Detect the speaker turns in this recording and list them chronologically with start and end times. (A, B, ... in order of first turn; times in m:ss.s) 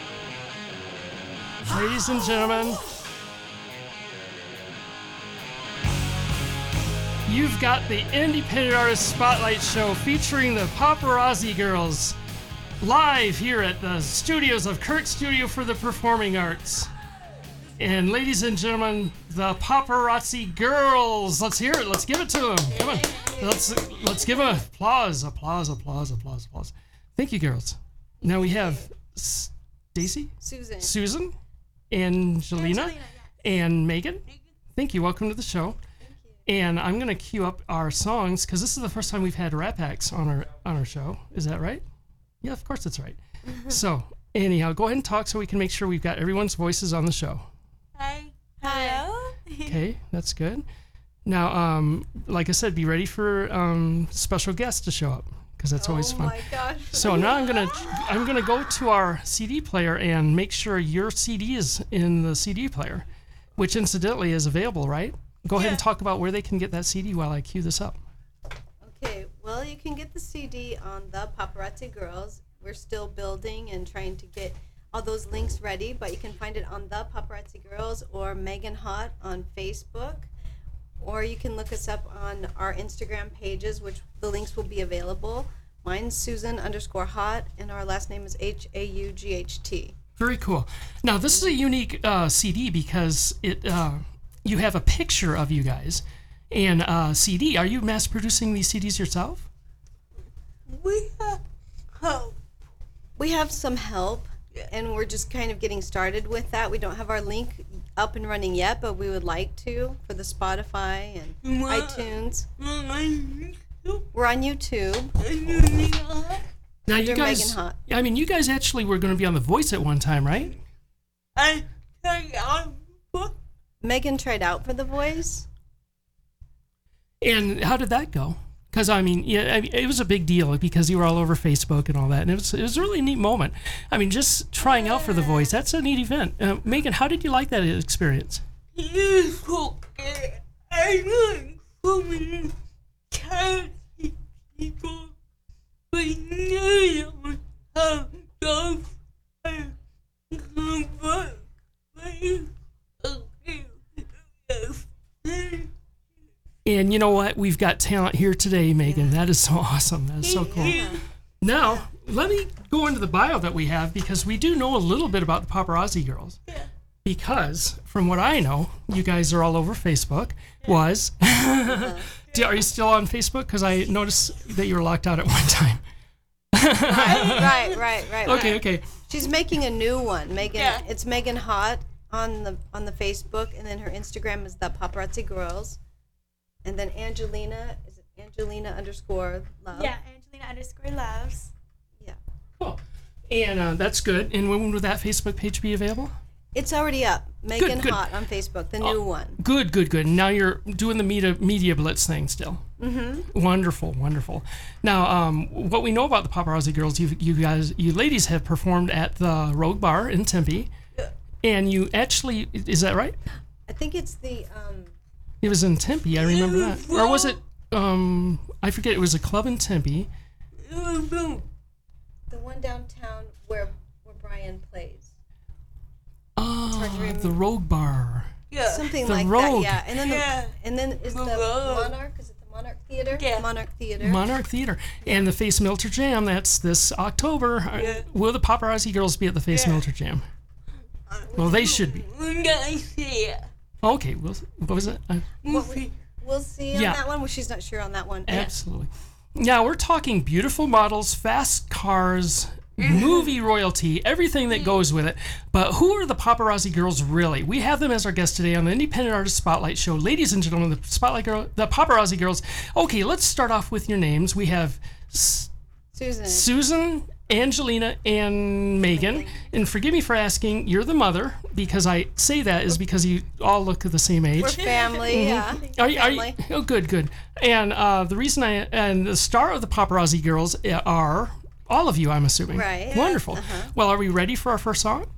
0:01.7-0:02.8 A
0:07.3-0:12.2 A
0:12.8-0:16.9 A
0:17.8-0:31.4 A
0:23.1-0:23.6 B
0:30.4-0:30.9 B
0:31.9-0:35.8 A
0:32.6-0:33.3 C
0:36.0-0:36.4 B
0:36.5-0:41.8 A
0:42.4-0:47.5 A
0:43.5-0:43.7 B
0:48.0-0:49.1 D
0:48.6-0:49.7 C
0:49.6-0:50.6 A
0:51.2-1:03.1 A
0:55.8-0:57.6 B
1:03.6-1:08.0 A
1:05.6-1:05.8 D
1:08.8-1:20.3 B
1:21.0-1:30.0 B
1:30.2-1:39.5 A
1:40.7-1:41.4 D
1:41.9-1:42.4 D
1:43.2-1:52.5 B
1:51.4-1:54.0 D
1:54.1-1:55.1 B
1:55.2-1:56.4 D
1:56.9-2:00.5 A
1:56.9-1:57.8 B
2:01.4-2:03.4 D
2:03.8-2:05.5 B
2:07.2-2:18.4 A
2:14.7-2:15.5 D
2:18.8-2:22.5 D
2:23.1-2:25.1 D
2:25.9-2:29.7 D
2:30.3-2:35.7 D
2:36.6-2:40.8 A
2:38.8-2:39.2 B
2:40.2-2:41.0 D
2:40.6-2:41.0 B
2:41.4-2:46.4 A
2:47.0-2:55.8 A
2:51.7-2:52.1 B
2:56.5-2:57.6 A
2:56.8-3:05.8 B
2:56.9-2:57.8 D
2:58.2-2:58.9 A
3:00.5-3:00.8 D
3:06.6-3:09.9 B
3:09.7-3:11.5 C
3:12.6-3:16.1 A
3:16.5-3:19.4 B
3:17.6-3:18.1 A
3:18.8-3:22.6 A
3:22.8-3:23.3 B
3:23.3-3:30.7 A
3:31.4-3:33.2 A
3:33.7-3:34.9 B
3:35.4-3:40.1 A
3:36.2-3:37.4 D
3:40.6-3:41.5 D
3:42.3-3:45.2 B
3:46.4-3:48.3 A
3:46.7-3:47.4 B
3:48.5-3:49.0 D
3:48.6-3:54.2 B
3:49.0-3:49.9 A
3:49.9-3:50.6 D
3:51.1-3:51.9 D
3:53.2-3:53.5 D
3:54.0-4:00.2 A
3:57.8-3:58.1 D
3:59.5-3:59.8 D
4:01.1-4:03.5 D
4:01.4-4:02.0 A
4:03.8-4:05.3 A
4:05.4-4:05.9 D
4:05.4-4:08.5 B
4:06.7-4:07.0 A
4:08.3-4:25.5 A
4:12.8-4:13.2 D
4:25.9-4:26.5 B
4:26.3-4:45.1 A
4:28.9-4:29.4 B
4:34.4-4:36.4 B
4:34.6-4:35.1 D
4:42.5-4:43.7 B